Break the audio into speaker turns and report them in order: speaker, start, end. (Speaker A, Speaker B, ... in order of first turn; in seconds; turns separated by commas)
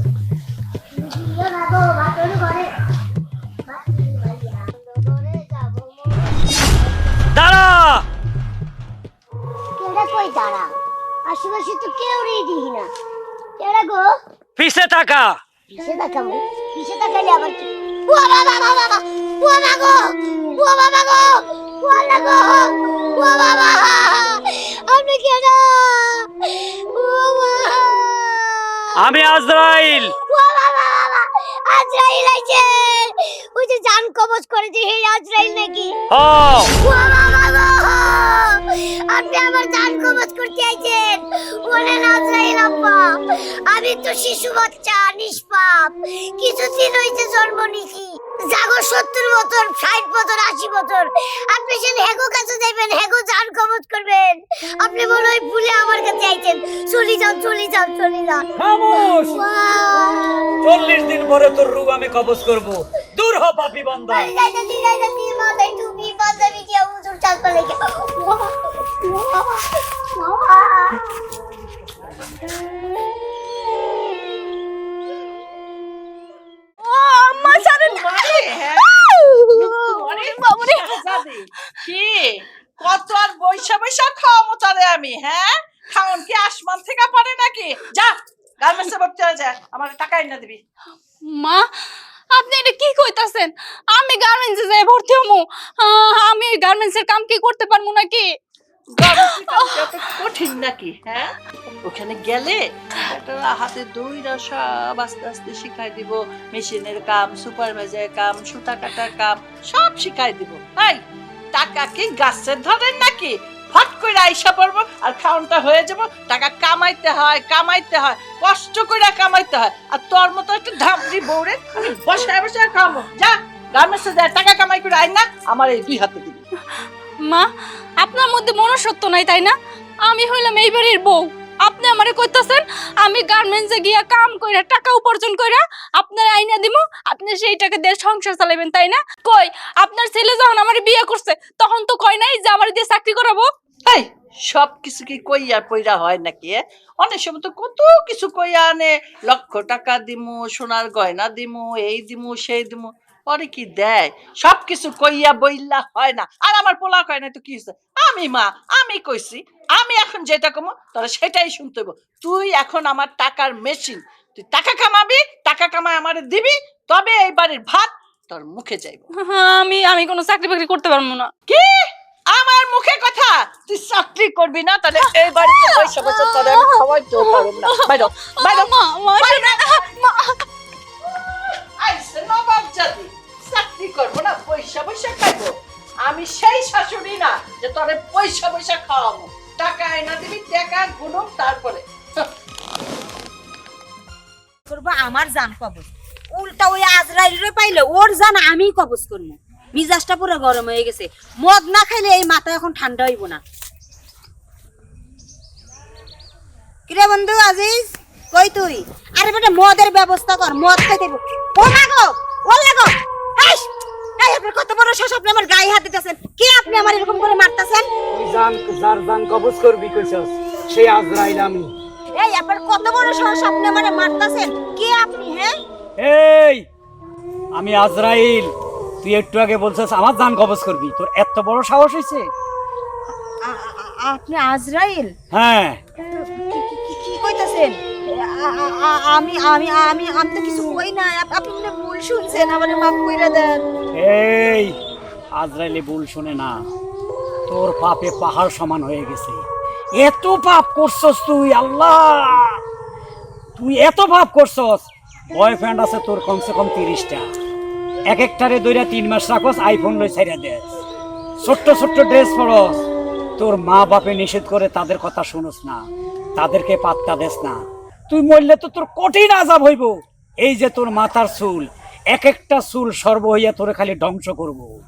Speaker A: 0.9-2.7, Speaker A: 3.7-6.3, Speaker B: 7.3-8.1, Speaker A: 9.8-10.7, Speaker A: 11.3-12.9, Speaker A: 13.6-14.2, Speaker B: 14.6-15.4, Speaker A: 15.7-29.1, Speaker B: 29.0-30.1, Speaker A: 30.2-36.0, Speaker B: 36.1-36.7, Speaker A: 36.8-60.5, Speaker B: 58.6-59.4, Speaker B: 60.6-64.3, Speaker A: 64.1-69.6, Speaker A: 70.2-71.0, Speaker C: 76.8-81.2, Speaker D: 77.4-90.6, Speaker C: 91.3-91.7, Speaker C: 92.3-98.3, Speaker D: 98.9-101.3, Speaker C: 99.1-99.9, Speaker D: 101.9-111.0, Speaker D: 111.5-126.4, Speaker C: 128.0-129.6, Speaker C: 130.1-143.5, Speaker D: 143.9-169.1, Speaker C: 169.1-171.3, Speaker D: 171.5-179.6, Speaker C: 175.3-180.4, Speaker D: 181.1-185.5, Speaker D: 186.1-192.3, Speaker E: 194.7-203.4, Speaker E: 206.9-213.7, Speaker E: 214.2-217.9, Speaker B: 218.1-221.7, Speaker E: 222.2-225.6, Speaker B: 226.0-226.7, Speaker B: 227.6-228.5, Speaker B: 229.0-232.3, Speaker E: 233.4-235.1, Speaker B: 235.3-235.8, Speaker E: 236.2-243.6, Speaker B: 244.0-244.7, Speaker B: 245.4-246.6, Speaker B: 247.5-249.4, Speaker B: 250.0-252.6, Speaker B: 253.6-257.3, Speaker B: 258.1-260.6, Speaker B: 261.4-262.8, Speaker B: 263.4-265.8, Speaker B: 266.4-267.6, Speaker B: 268.1-274.7